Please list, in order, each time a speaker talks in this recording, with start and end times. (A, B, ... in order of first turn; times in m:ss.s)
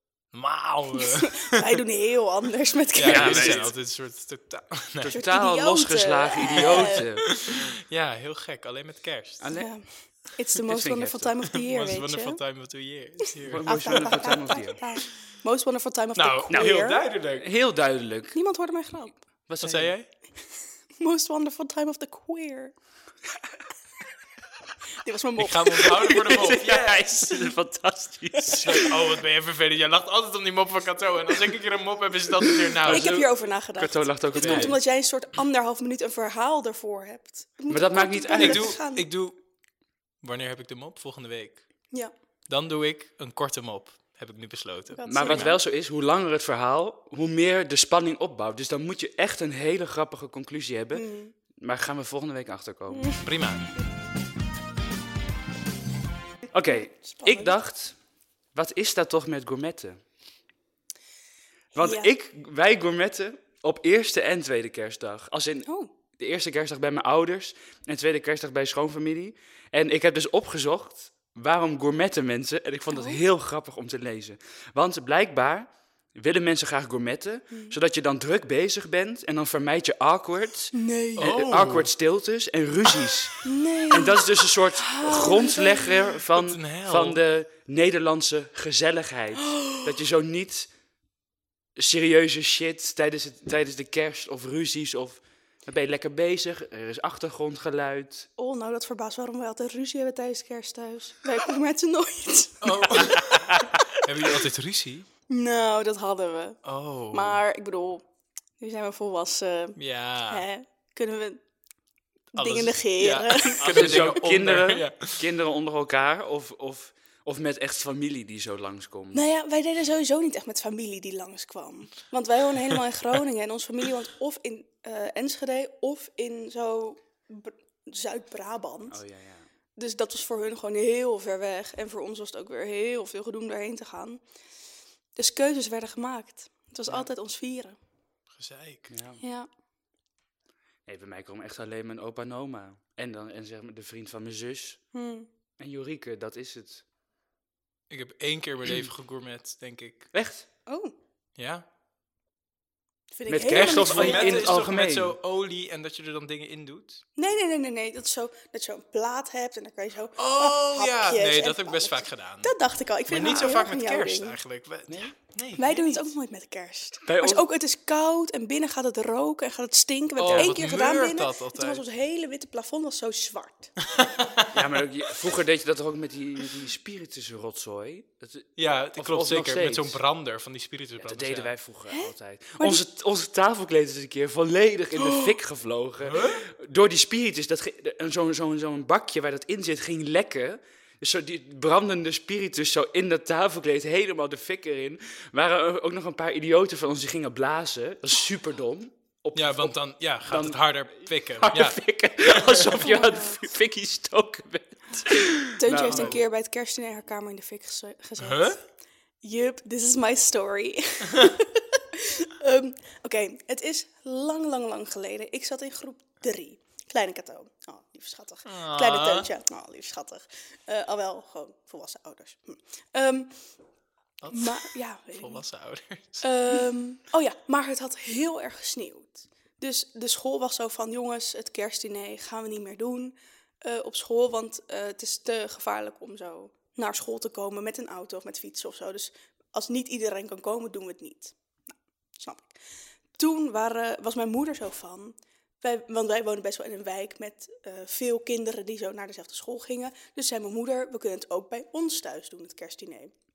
0:00.3-0:01.8 A
0:01.0-0:03.6 B
0:03.0-0:05.2 A
0:03.0-0:03.7 C
0:05.0-0:07.6 C
0:05.1-0:07.1 B
0:06.5-0:09.5 A
0:09.4-0:09.7 C
0:09.5-0:12.4 B
0:10.6-0:11.3 C
0:11.5-0:14.5 A
0:13.2-0:17.0 B
0:13.5-0:14.8 C
0:16.1-0:17.5 A
0:16.5-0:16.8 C
0:17.4-0:18.4 C
0:18.3-0:19.2 B
0:19.5-0:19.9 C
0:19.6-0:20.1 A
0:21.0-0:22.7 B
0:25.0-0:26.6 B
0:25.4-0:27.4 A
0:26.0-0:28.9 C
0:28.4-0:33.2 A
0:28.5-0:28.9 B
0:32.7-0:34.8 C
0:32.8-0:39.1 B
0:34.3-0:34.8 A
0:37.7-0:38.8 C
0:38.4-0:39.4 A
0:40.2-0:41.6 A
0:42.5-0:45.6 A
0:44.9-0:45.6 B
0:45.1-0:53.1 C
0:50.9-0:51.3 B
0:52.9-0:53.2 B
0:53.2-0:53.7 A
0:56.5-0:58.0 C
0:56.7-0:57.5 B
0:58.5-1:00.0 C
1:01.7-1:02.1 B
1:01.7-1:30.7 C
1:05.6-1:05.9 B
1:12.9-1:13.2 B
1:17.5-1:17.8 B
1:20.7-1:21.4 B
1:21.2-1:21.9 A
1:23.4-1:26.1 B
1:26.3-1:27.2 A
1:29.4-1:29.9 B
1:31.8-1:38.3 C
1:38.4-1:43.4 B
1:42.6-1:45.1 A
1:43.2-1:43.7 C
1:45.3-1:48.0 B
1:46.6-1:47.4 A
1:48.6-1:51.4 B
1:49.8-1:50.4 A
1:52.3-1:53.9 B
1:52.3-1:55.2 A
1:53.6-1:59.2 C
1:59.1-2:09.0 B
2:08.9-2:09.5 C
2:09.8-2:14.2 B
2:15.2-2:17.8 B
2:18.3-2:18.9 A
2:18.9-2:19.2 C
2:19.2-2:19.5 B
2:20.8-2:24.8 C
2:24.9-2:25.3 B
2:25.6-2:26.8 C
2:27.9-2:30.1 A
2:30.1-2:30.5 C
2:30.7-2:30.9 B
2:31.4-2:31.6 A
2:33.1-2:34.4 B
2:33.3-2:35.2 C
2:33.5-2:37.0 A
2:37.2-2:44.4 B
2:40.2-2:42.5 A
2:43.0-2:46.1 A
2:44.9-2:45.1 C
2:45.6-2:53.8 B
2:47.0-2:47.5 C
2:50.2-2:51.8 A
2:50.2-2:50.6 C
2:53.9-2:54.6 A
2:54.5-3:00.0 C
2:58.6-3:01.5 A
3:01.0-3:26.2 C
3:01.9-3:02.8 B
3:05.0-3:05.3 B
3:06.0-3:06.4 A
3:19.3-3:22.9 A
3:22.8-3:23.4 B
3:25.5-3:28.6 B
3:25.9-3:26.2 A
3:28.2-3:28.6 A
3:29.2-3:43.4 B
3:38.4-3:39.3 A
3:44.2-3:46.3 A
3:44.3-3:45.4 B
3:46.2-4:01.3 B
4:02.2-4:02.5 B
4:03.2-4:13.1 B